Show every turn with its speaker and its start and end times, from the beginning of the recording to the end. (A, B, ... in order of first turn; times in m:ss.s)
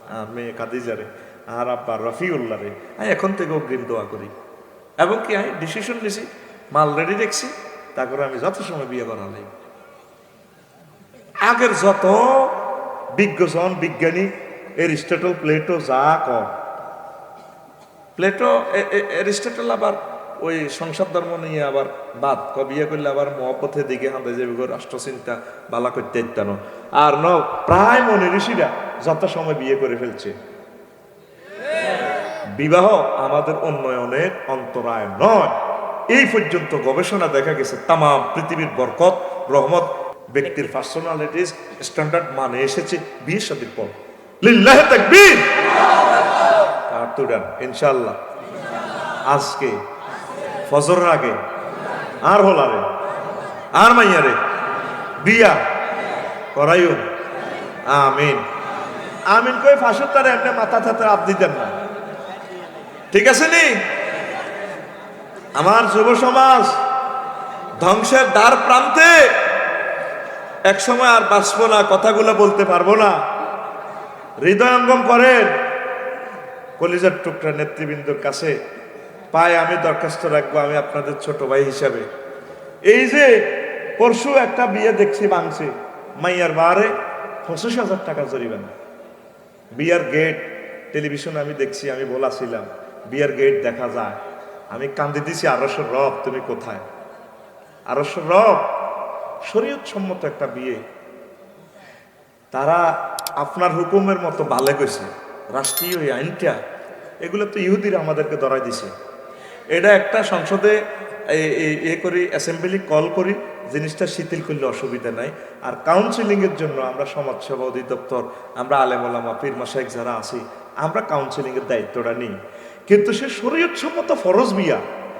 0:00.1-0:04.3 A
0:05.0-0:09.5 A
0:11.4-0:16.5 A
0:18.2-0:30.3 A
0:32.5-0:35.6 A
0:36.1-0:45.5 A
0:46.9-0:48.2 A
0:49.3-0:49.8 A
0:50.7-0:51.4 A
0:52.2-0:52.9 A
0:53.7-0:54.4 A
0:55.2-0:55.6 A
0:56.5-0:57.0 A
0:57.9-0:58.4 A
0:59.3-1:01.8 A
1:03.1-1:03.8 A
1:05.5-1:06.8 A
1:07.8-1:09.4 A
1:10.6-1:13.2 A
1:14.4-1:15.6 A
1:16.8-1:18.6 A
1:19.3-1:22.1 A
1:22.8-1:28.7 A
1:29.7-1:34.2 A
1:34.7-1:36.8 A
1:37.9-1:38.7 A
1:39.4-1:40.8 A
1:42.5-1:46.6 A
1:47.2-1:48.9 A
1:49.7-2:04.8 A